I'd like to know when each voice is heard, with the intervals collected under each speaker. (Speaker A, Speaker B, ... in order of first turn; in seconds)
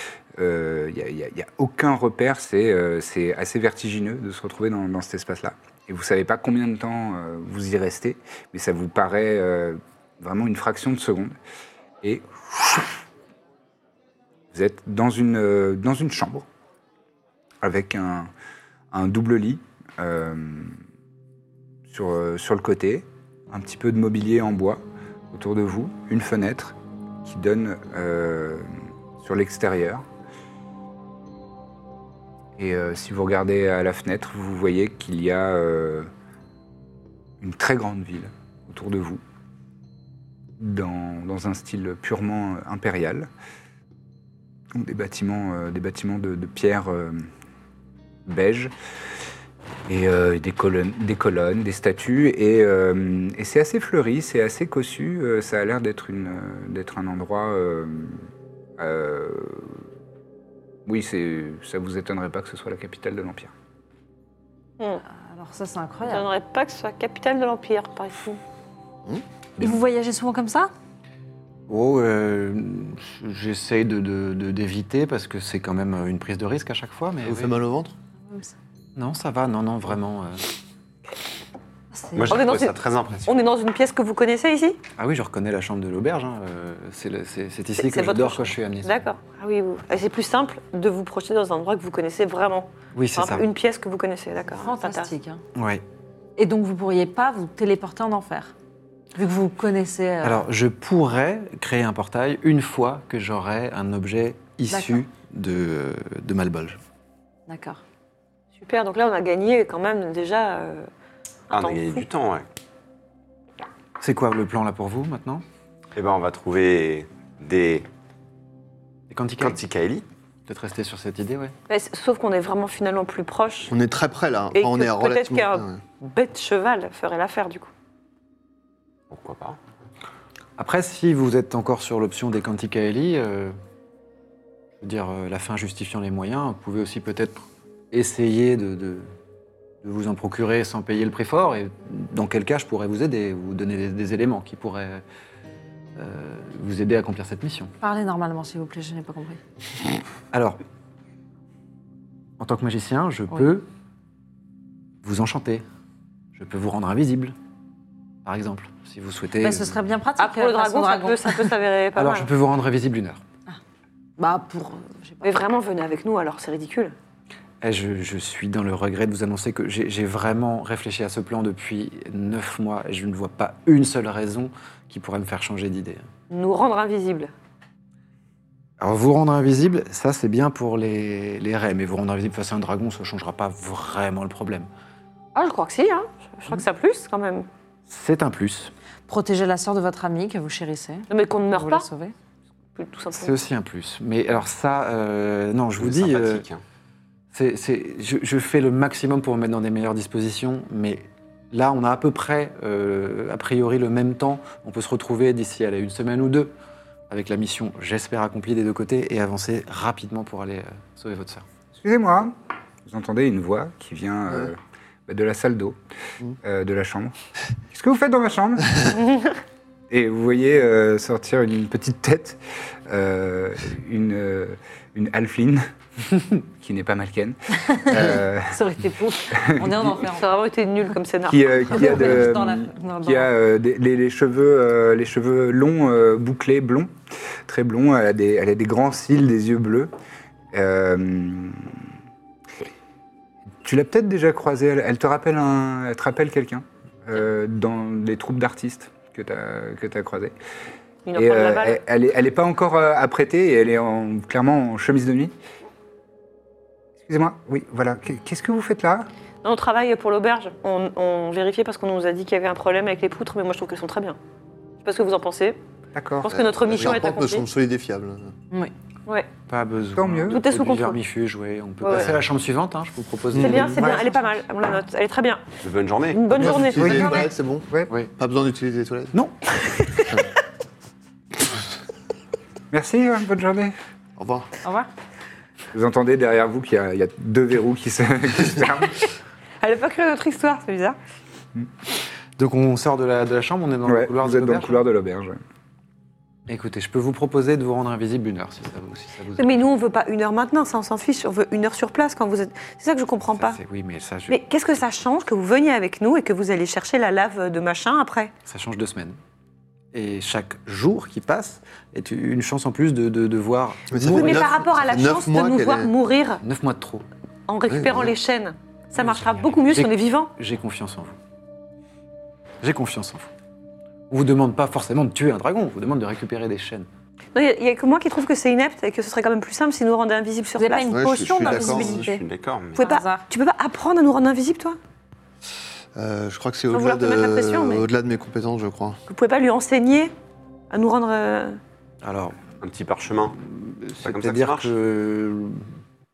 Speaker A: 0.3-11.3, 12.0-12.9, 14.5-16.4, 17.6-18.3, 18.9-20.8, 21.9-28.7, 29.2-30.0, 32.6-36.1, 37.4-39.2, 40.6-43.3, 44.7-47.3, 48.2-48.7, 49.9-58.2, 58.8-59.8, 60.9-63.5, 211.7-215.8, 216.4-217.1, 217.7-218.9, 219.9-225.7, 226.6-228.6, 229.3-230.0, 231.3-236.9, 237.4-239.9, 240.5-241.7, 243.6-250.3, 251.1-255.3, 257.0-259.1, 265.9-266.3, 269.9-270.4, 276.7-277.9, 282.7-283.7, 285.7-289.0, 293.8-295.4
Speaker B: 65.1-66.3, 69.6-70.7, 78.3-78.5, 81.9-82.4, 94.6-95.4, 96.4-98.5, 99.1-100.5, 104.7-105.0, 107.5-107.8, 147.8-149.4, 159.4-161.5, 164.2-165.4, 189.1-192.1, 227.7-230.2, 231.7-233.3, 284.6-284.9, 330.6-332.2, 332.8-333.2
Speaker C: 66.0-68.4, 82.3-84.8, 87.8-95.1, 108.6-110.9, 111.5-112.0, 121.7-123.7, 124.5-127.7, 160.2-162.3, 165.2-166.9, 176.3-177.3, 185.3-187.5, 191.1-191.9, 192.8-193.3, 218.9-219.3, 230.1-232.1, 251.1-251.8, 259.4-264.2, 264.8-265.6, 266.2-267.4, 270.3-271.0, 271.8-272.1, 273.4-275.4, 276.1-277.2, 289.6-291.0, 299.4-303.6, 304.3-308.3, 314.1-316.4, 317.5-320.3, 327.3-331.1, 332.8-334.8, 336.7-337.9, 339.1-340.1, 340.7-341.6
Speaker D: 71.7-77.6, 79.0-80.4, 85.0-89.0, 92.9-93.4, 95.5-95.8, 100.2-106.8, 114.0-115.4, 119.1-119.6, 120.5-121.5, 130.6-133.6, 134.8-139.1, 139.8-145.0, 145.9-147.7, 150.3-150.6, 152.4-153.7, 155.0-155.6, 156.3-157.3, 158.2-159.8, 161.9-163.2, 167.6-176.1, 178.8-184.7, 187.9-188.7, 193.1-196.4, 197.3-206.5, 207.1-211.4, 269.5-274.0, 279.1-279.4, 292.4-294.8, 296.5-299.5, 303.3-304.4, 308.4-309.2, 309.9-314.5, 316.4-317.1, 318.9-321.2, 322.6-323.3, 324.1-326.9, 342.0-342.4, 343.4-345.7
Speaker E: 77.2-78.0, 123.7-125.8, 266.3-268.3, 271.9-272.1, 273.4-273.8, 276.4-279.1, 284.2-284.5, 313.9-315.9, 317.7-318.1, 330.9-332.1, 335.9-339.0
Speaker F: 82.1-83.3, 111.5-112.5, 115.9-117.9, 119.4-120.0, 129.1-129.6, 195.8-196.6, 275.6-276.5, 331.4-332.8, 342.6-343.4, 344.0-344.7